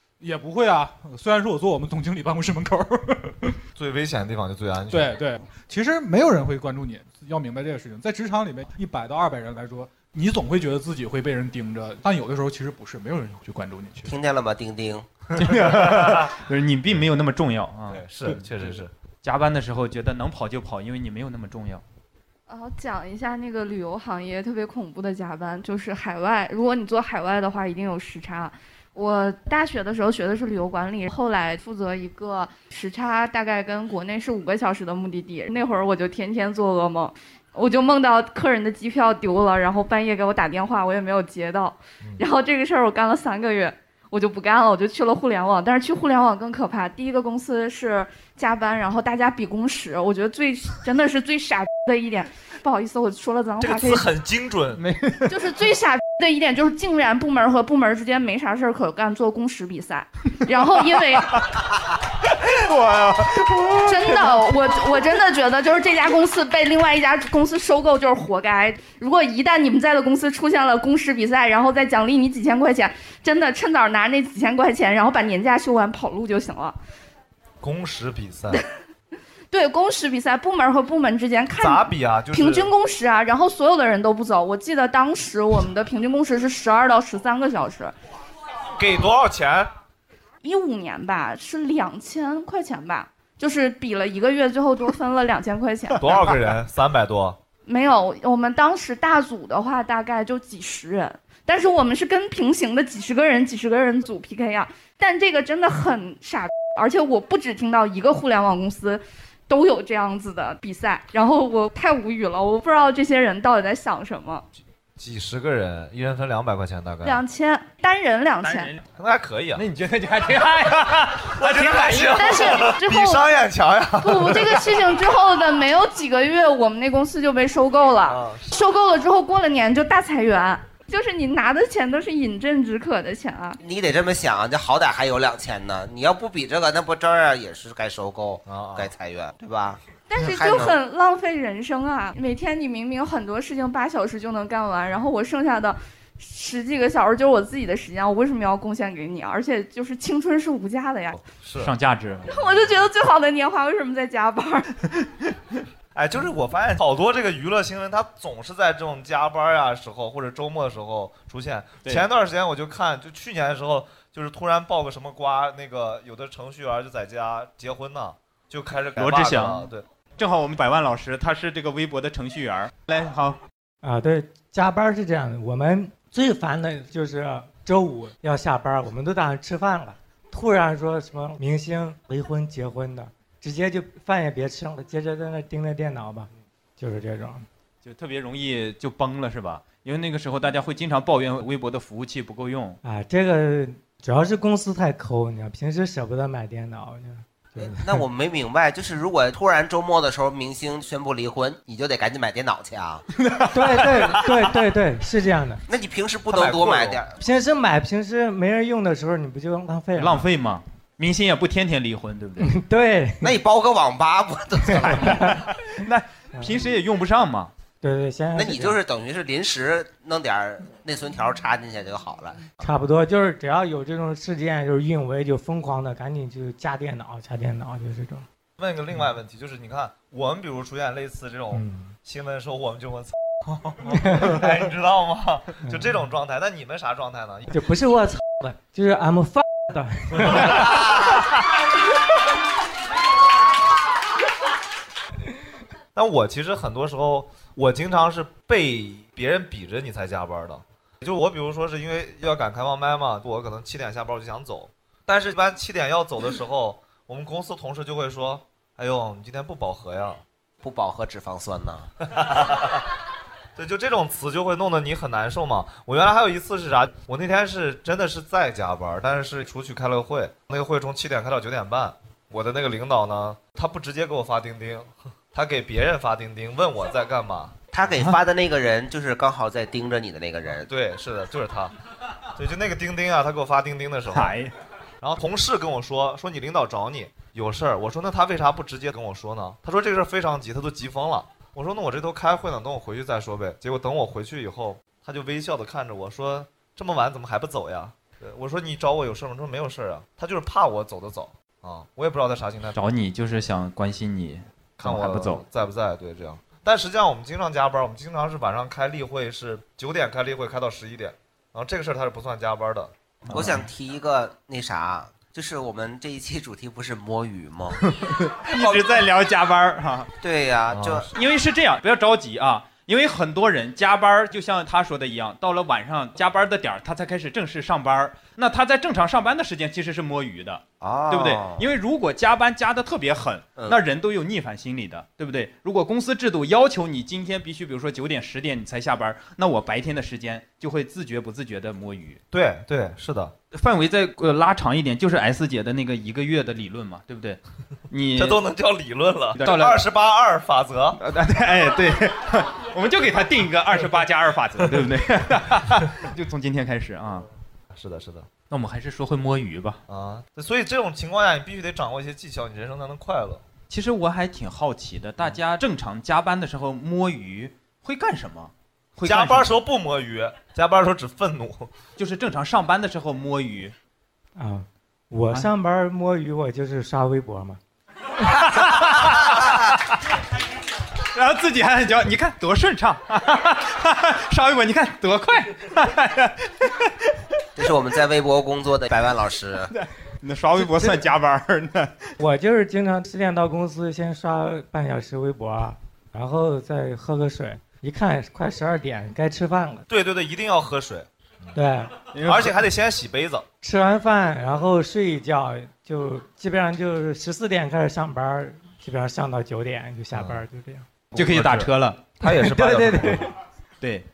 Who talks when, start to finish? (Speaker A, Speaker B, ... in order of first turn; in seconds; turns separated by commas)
Speaker A: 0.2-3.6, Speaker B: 3.7-5.1, Speaker A: 4.9-14.1, Speaker C: 14.0-15.1, Speaker D: 15.3-18.4, Speaker B: 15.8-16.3, Speaker B: 17.9-18.9, Speaker D: 19.2-21.8, Speaker E: 22.5-54.1, Speaker B: 53.6-54.8, Speaker D: 54.8-55.3, Speaker E: 55.3-61.5, Speaker D: 62.4-64.4, Speaker E: 63.8-76.8, Speaker B: 77.6-78.6, Speaker E: 79.5-87.9, Speaker B: 81.6-82.7, Speaker B: 88.8-89.7, Speaker E: 90.4-96.3, Speaker B: 96.0-97.4, Speaker E: 97.7-114.4, Speaker B: 115.0-117.2, Speaker E: 117.0-118.7, Speaker D: 118.4-118.8, Speaker B: 119.0-119.6, Speaker D: 119.5-122.6, Speaker B: 121.3-124.8, Speaker E: 122.1-123.2, Speaker E: 124.0-133.6, Speaker B: 128.1-128.5, Speaker C: 133.6-140.8, Speaker B: 138.4-138.9, Speaker E: 140.1-151.2, Speaker B: 151.2-151.7, Speaker D: 151.6-152.4, Speaker E: 152.3-154.7, Speaker B: 155.9-169.8, Speaker D: 169.0-173.4, Speaker F: 173.8-187.4, Speaker D: 187.8-192.8, Speaker F: 192.8-197.9, Speaker C: 197.6-203.0, Speaker D: 203.2-203.8, Speaker F: 203.5-205.6, Speaker C: 205.7-207.1, Speaker F: 207.2-210.2, Speaker D: 209.9-212.5, Speaker F: 212.4-213.3, Speaker C: 213.2-215.3, Speaker F: 214.7-215.3, Speaker D: 215.5-217.5, Speaker F: 217.8-218.8, Speaker C: 218.3-222.5, Speaker F: 222.6-228.2, Speaker B: 228.6-237.6, Speaker F: 231.5-231.9, Speaker F: 233.9-234.4, Speaker F: 235.7-235.9, Speaker F: 237.5-241.1, Speaker B: 240.2-241.2, Speaker B: 245.9-260.2, Speaker C: 260.6-261.9, Speaker B: 262.1-262.8, Speaker B: 263.6-277.6, Speaker C: 277.7-280.7, Speaker B: 280.6-281.7, Speaker B: 282.3-284.4, Speaker D: 284.1-284.5, Speaker B: 285.0-302.8, Speaker D: 302.7-305.4, Speaker B: 304.8-313.5, Speaker C: 313.3-317.8, Speaker D: 318.0-320.1, Speaker C: 318.5-318.8, Speaker C: 320.2-321.1, Speaker B: 320.7-321.1, Speaker D: 321.1-342.2, Speaker C: 330.8-331.7, Speaker B: 342.3-343.3, Speaker D: 343.5-348.4, Speaker B: 348.1-351.0, Speaker D: 349.4-349.8, Speaker D: 351.0-357.3, Speaker B: 357.7-358.3, Speaker D: 358.5-359.8, Speaker B: 359.9-363.4, Speaker D: 363.7-369.5, Speaker B: 369.0-371.7, Speaker D: 372.0-373.7, Speaker F: 374.4-377.6, Speaker D: 378.4-379.6, Speaker D: 381.1-386.9, Speaker C: 387.6-389.7, Speaker D: 389.7-392.1, Speaker F: 392.2-399.8, Speaker B: 399.9-401.6, Speaker F: 401.5-401.9, Speaker D: 402.1-402.6, Speaker B: 402.2-403.4, Speaker F: 403.6-410.9, Speaker B: 410.1-410.4, Speaker B: 411.1-413.3, Speaker D: 411.1-412.0, Speaker F: 412.2-413.3, Speaker D: 413.8-414.1